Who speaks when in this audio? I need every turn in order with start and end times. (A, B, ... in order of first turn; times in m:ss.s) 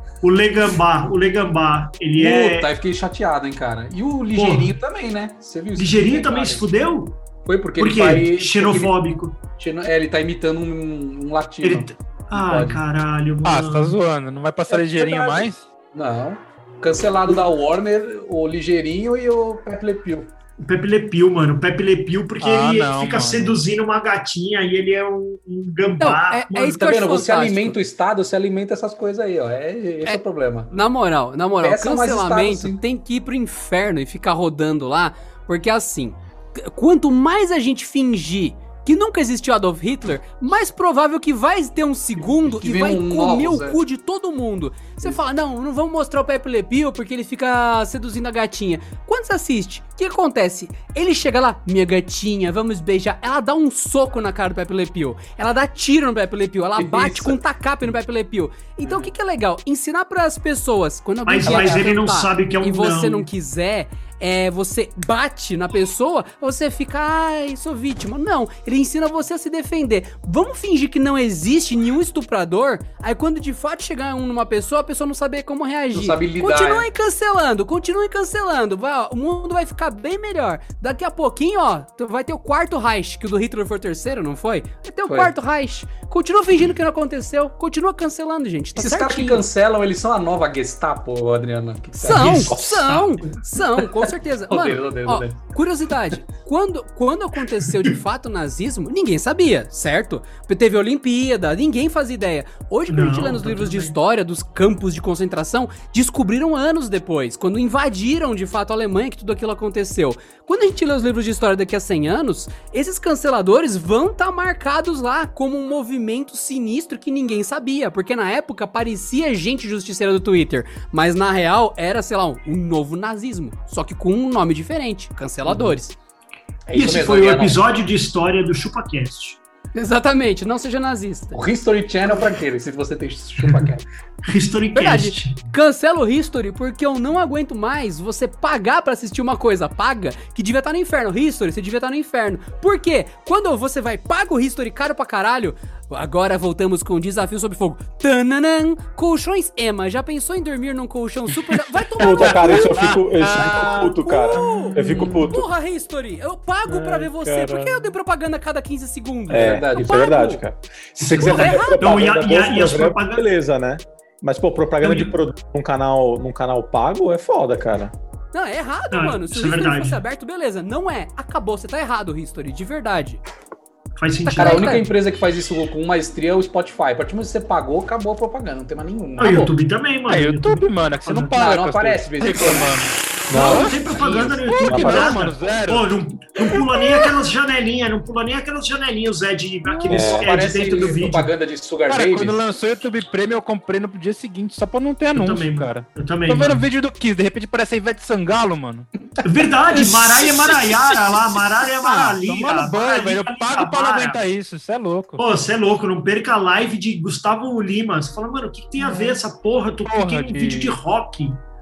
0:00.2-0:02.7 A
0:02.2-0:06.6 B
0:04.3-0:04.7 A
0:05.8-0:07.2 A
0:07.4-0:09.0 B
0:07.8-0:09.4 A
0:09.5-0:12.8 B
0:11.6-0:14.0 A
0:13.4-0:15.6 C
0:14.7-0:20.3 B
0:20.6-0:26.8 A
0:22.4-0:23.6 C
0:26.0-0:27.8 D
0:26.7-0:30.7 B
0:30.0-1:29.4 D
0:31.6-0:32.8 B
0:42.3-0:43.8 B
0:56.8-0:57.4 B
0:58.8-0:59.1 B
1:01.3-1:03.2 A
1:01.4-1:01.9 B
1:15.9-1:16.9 B
1:25.1-1:25.3 B
1:28.8-1:32.6 B
1:32.0-2:06.0 D
1:32.2-1:33.0 E
1:33.8-1:35.4 B
1:42.9-1:44.0 A
2:05.4-2:05.8 B
2:06.7-2:07.6 B
2:06.7-2:09.4 A
2:09.7-2:11.4 D
2:11.3-2:13.8 B
2:14.2-2:15.4 A
2:14.7-2:40.4 D
2:32.0-2:35.5 E
2:32.0-2:34.7 C
2:36.7-2:37.9 E
2:39.3-2:40.0 B
2:39.3-2:47.9 E
2:41.0-2:43.2 A
2:41.1-2:41.8 D
2:44.8-2:45.2 A
2:48.3-2:53.2 D
2:48.9-2:50.0 A
2:54.0-2:54.8 A
2:54.2-2:54.9 D
2:54.3-2:59.5 B
2:59.2-3:01.3 A
3:00.1-3:03.8 C
3:01.3-3:02.7 B
3:03.3-3:03.7 E
3:03.3-3:11.3 A
3:04.0-3:04.4 B
3:04.5-3:05.9 C
3:04.6-3:05.2 E
3:09.9-3:10.4 E
3:09.9-3:12.4 B
3:11.9-3:18.9 C
3:15.1-3:16.6 A
3:19.2-3:24.2 A
3:20.2-3:25.2 C
3:25.2-3:31.4 A
3:29.8-3:30.8 C